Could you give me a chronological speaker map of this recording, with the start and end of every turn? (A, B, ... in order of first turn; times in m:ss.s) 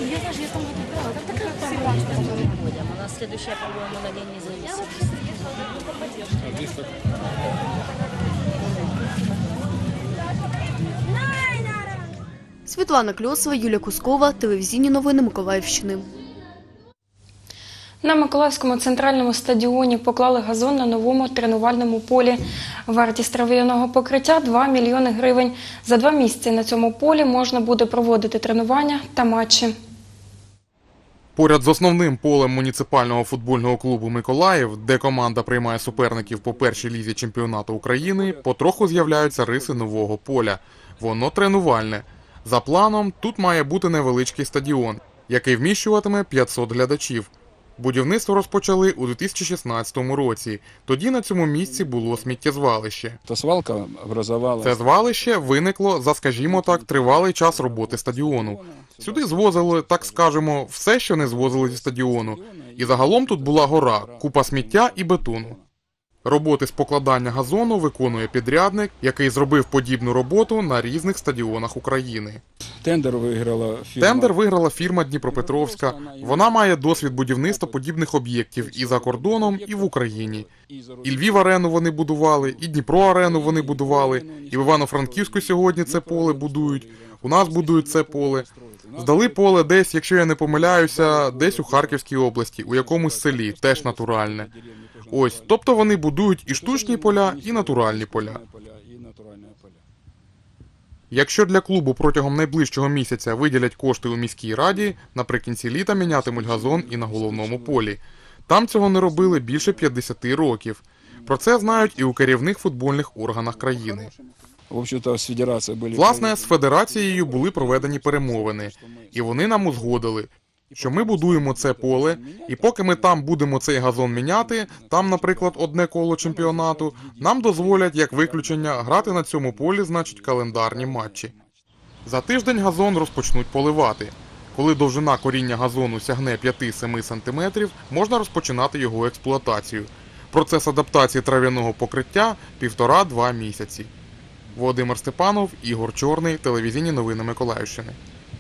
0:12.7-0:16.1 A
0:18.0-0:29.7 B
0:31.4-0:53.2 C
0:35.9-0:36.8 D
0:38.2-0:39.9 D
0:53.3-0:55.1 D
0:54.6-1:05.6 C
0:56.4-1:00.3 D
1:01.3-1:05.6 D
1:06.2-1:12.4 C
1:12.8-1:14.4 D
1:14.0-1:20.5 C
1:15.2-1:17.8 D
1:18.6-1:21.6 D
1:21.0-1:34.5 C
1:22.4-1:29.6 D
1:30.6-1:32.0 D
1:32.7-1:35.6 D
1:35.1-1:38.4 C
1:36.5-1:39.8 D
1:41.1-1:54.1 C
1:46.0-1:47.9 D
1:49.1-1:49.9 D
1:51.3-1:52.3 D
1:53.6-1:54.2 D
1:54.7-2:00.0 D
1:55.9-2:11.3 C
2:00.7-2:03.3 D
2:04.2-2:11.4 D
2:12.0-2:23.9 C
2:24.6-2:28.0 C